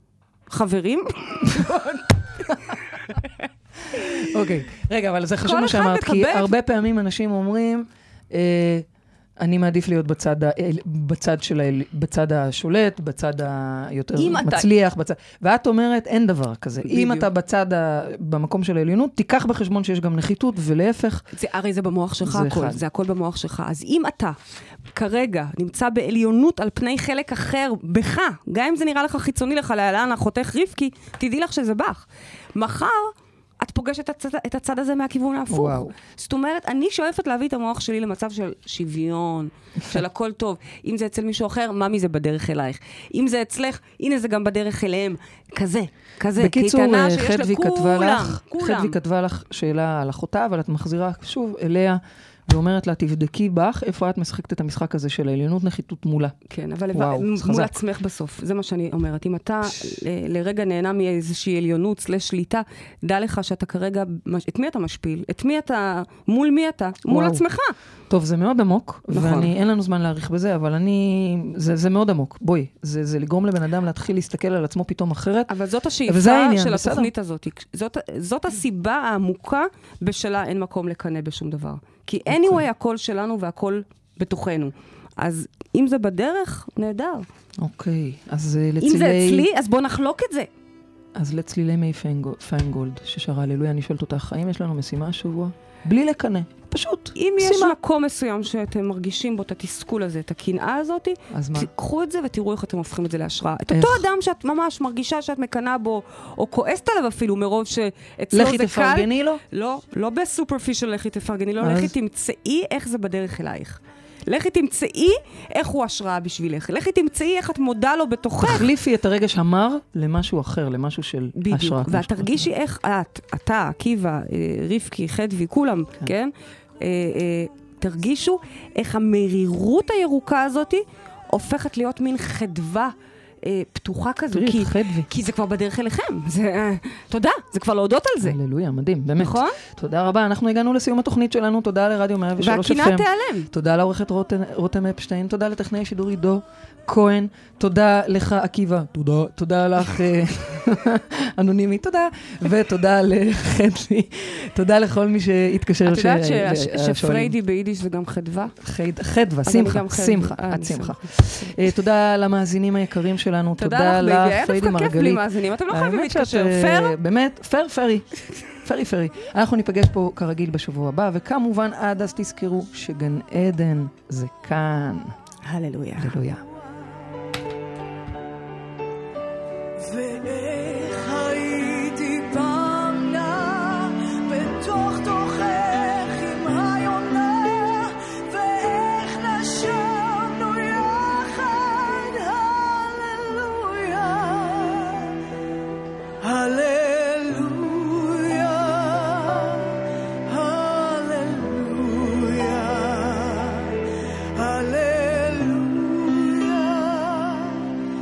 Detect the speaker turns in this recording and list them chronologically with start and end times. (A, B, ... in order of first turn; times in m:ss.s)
0:00.5-0:03.3 A
0:03.9-0:08.9 B
0:04.0-0:04.2 A
0:05.4-0:06.5 A
0:09.4-0:21.2 B
0:14.2-0:14.7 A
0:16.8-0:17.3 A
0:21.3-0:24.4 A
0:22.2-0:22.8 B
0:24.9-0:49.0 A
0:35.5-0:35.9 B
0:46.4-0:56.4 B
0:56.5-1:07.8 A
0:56.9-0:57.8 B
1:07.1-1:07.4 B
1:08.1-1:17.1 B
1:09.1-1:09.5 A
1:15.5-1:27.3 A
1:22.3-1:22.6 B
1:27.6-1:29.5 B
1:28.8-1:30.5 A
1:31.2-1:37.8 B
1:37.2-1:58.7 A
1:41.3-1:41.7 B
1:43.7-1:44.1 B
1:48.3-1:49.4 B
1:51.6-1:52.0 B
1:58.4-2:02.5 B
2:01.4-2:18.4 A
2:14.3-2:15.1 B
2:18.2-2:37.4 B
2:19.2-2:19.6 A
2:22.4-2:23.5 A
2:35.9-2:38.5 A
2:38.6-2:55.1 B
2:39.4-2:41.4 A
2:43.6-2:47.0 A
2:55.4-2:56.2 A
2:56.0-2:56.4 B
2:59.8-3:15.2 C
3:16.2-3:27.8 C